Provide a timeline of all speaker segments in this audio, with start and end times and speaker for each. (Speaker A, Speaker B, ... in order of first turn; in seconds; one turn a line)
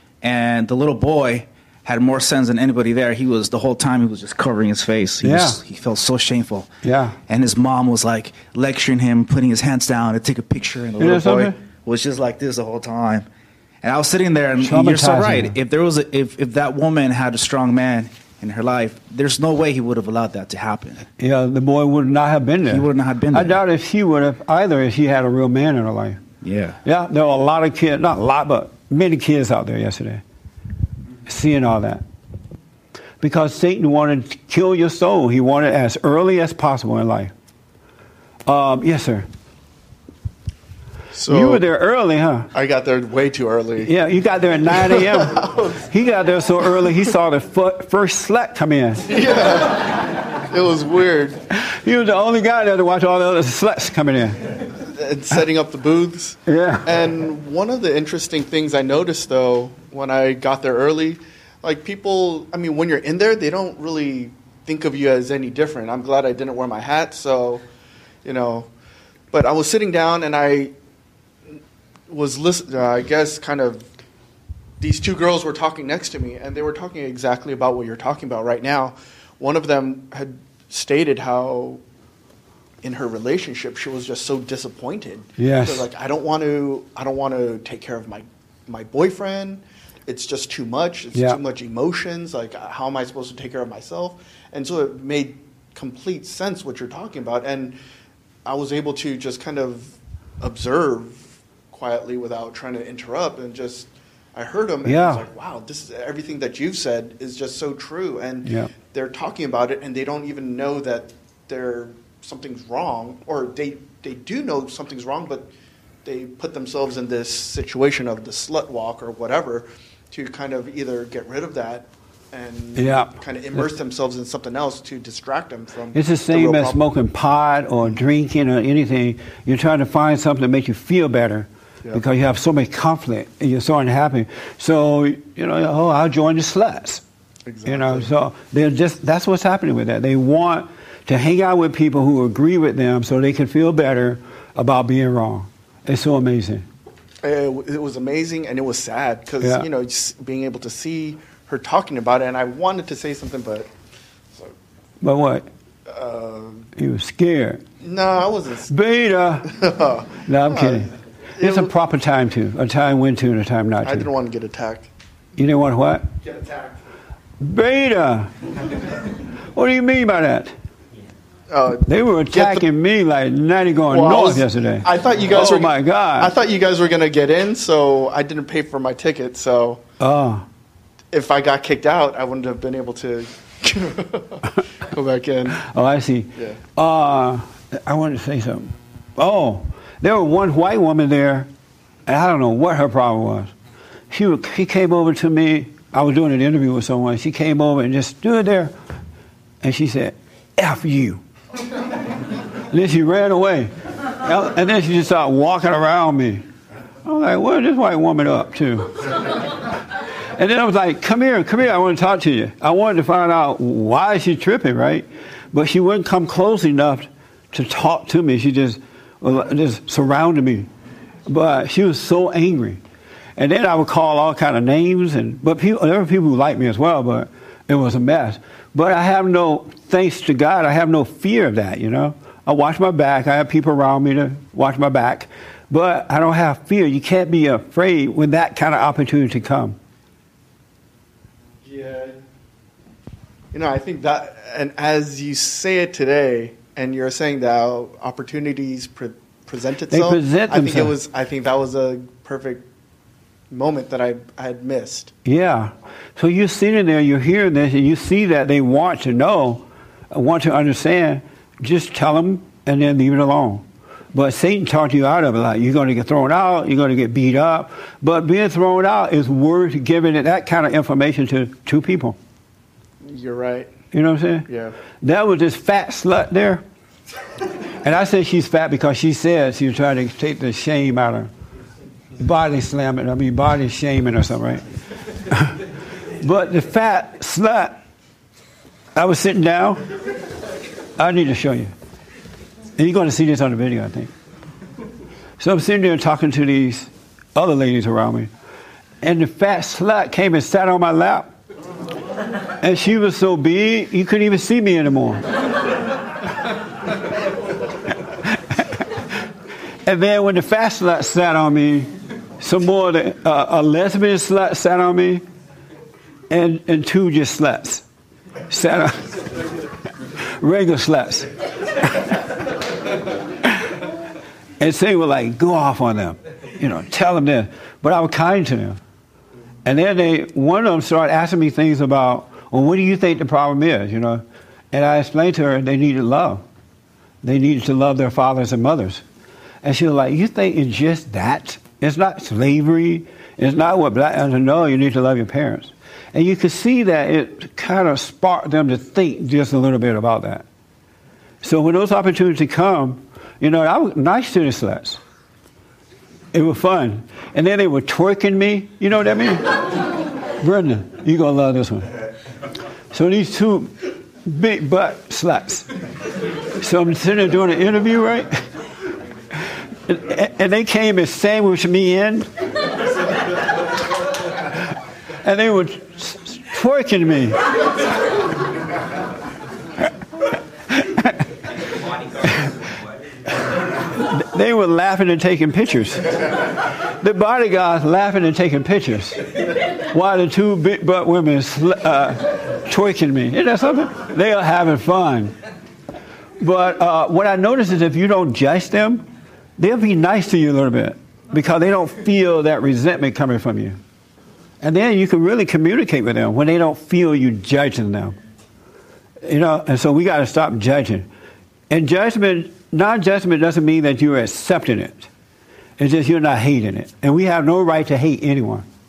Speaker A: 0.2-6.7
Speaker B: 5.2-5.6
Speaker B: 6.8-7.2
Speaker A: 7.3-13.2
Speaker B: 11.0-11.6
Speaker A: 13.8-21.0
Speaker B: 14.6-15.6
Speaker B: 21.2-26.2
Speaker A: 22.7-23.6
Speaker A: 26.4-26.8
Speaker B: 26.8-30.2
Speaker B: 31.2-32.0
Speaker B: 33.2-37.3
Speaker B: 38.5-39.3
Speaker C: 41.1-41.6
Speaker B: 41.3-42.5
Speaker C: 42.5-43.9
Speaker B: 43.8-49.1
Speaker C: 44.6-45.8
Speaker C: 49.1-51.4
Speaker B: 51.5-54.5
Speaker C: 54.9-67.6
Speaker B: 56.5-56.9
Speaker C: 68.2-68.7
Speaker C: 69.3-70.7
Speaker C: 72.1-73.9
Speaker C: 74.8-81.8
Speaker C: 82.8-97.8
Speaker B: 85.4-85.9
Speaker B: 91.1-91.4
Speaker C: 98.4-115.5
Speaker B: 104.8-105.2
Speaker B: 108.4-108.7
Speaker C: 116.0-126.8
Speaker B: 122.7-123.7
Speaker B: 125.9-137.0
Speaker C: 137.5-138.1
Speaker B: 137.6-146.7
Speaker C: 147.2-153.7
Speaker B: 149.4-149.7
Speaker B: 155.0-155.4
Speaker C: 155.9-156.7
Speaker B: 156.8-157.6
Speaker C: 157.8-158.7
Speaker B: 158.7-159.5
Speaker C: 159.5-161.7
Speaker B: 160.2-164.1
Speaker C: 163.8-164.9
Speaker B: 165.3-166.1
Speaker C: 166.2-166.7
Speaker B: 167.4-168.3
Speaker B: 169.5-170.5
Speaker C: 171.5-172.7
Speaker B: 171.8-176.3
Speaker C: 173.9-179.8
Speaker B: 180.0-180.4
Speaker C: 181.1-185.6
Speaker B: 185.6-191.5
Speaker B: 192.1-193.5
Speaker B: 194.1-198.7
Speaker B: 199.6-201.2
Speaker B: 202.7-206.4
Speaker B: 207.1-209.1
Speaker B: 210.3-220.7
Speaker B: 221.3-222.8
Speaker B: 223.3-239.8
Speaker C: 241.6-242.2
Speaker C: 243.5-252.6
Speaker B: 249.9-250.9
Speaker C: 253.5-255.1
Speaker B: 255.2-272.1
Speaker C: 273.0-273.7
Speaker B: 273.9-274.5
Speaker C: 274.5-274.7
Speaker B: 275.0-276.6
Speaker B: 277.8-281.3
Speaker B: 282.2-284.6
Speaker B: 285.3-285.6
Speaker B: 286.2-287.8
Speaker B: 288.9-289.8
Speaker B: 290.9-291.7
Speaker B: 292.8-294.1
Speaker B: 295.4-298.3
Speaker B: 299.0-301.3
Speaker B: 302.6-305.2
Speaker B: 308.3-308.8
Speaker B: 309.8-315.2
Speaker B: 316.3-317.8
Speaker B: 318.5-319.1
Speaker B: 320.2-321.3
Speaker B: 324.6-328.8
Speaker B: 329.6-336.4
Speaker B: 337.2-339.0
Speaker B: 339.6-350.4
Speaker B: 351.4-355.0
Speaker B: 356.3-359.5
Speaker B: 360.4-361.9
Speaker B: 362.9-363.7
Speaker B: 364.2-365.7
Speaker B: 366.6-368.3
Speaker B: 369.9-372.3
Speaker B: 375.2-377.4
Speaker B: 380.7-381.2
Speaker B: 382.2-382.6
Speaker B: 383.9-389.2
Speaker B: 389.9-395.3
Speaker B: 396.4-399.1
Speaker B: 399.6-403.8
Speaker B: 404.6-408.1
Speaker B: 409.2-411.1
Speaker B: 411.7-415.1
Speaker B: 415.8-418.6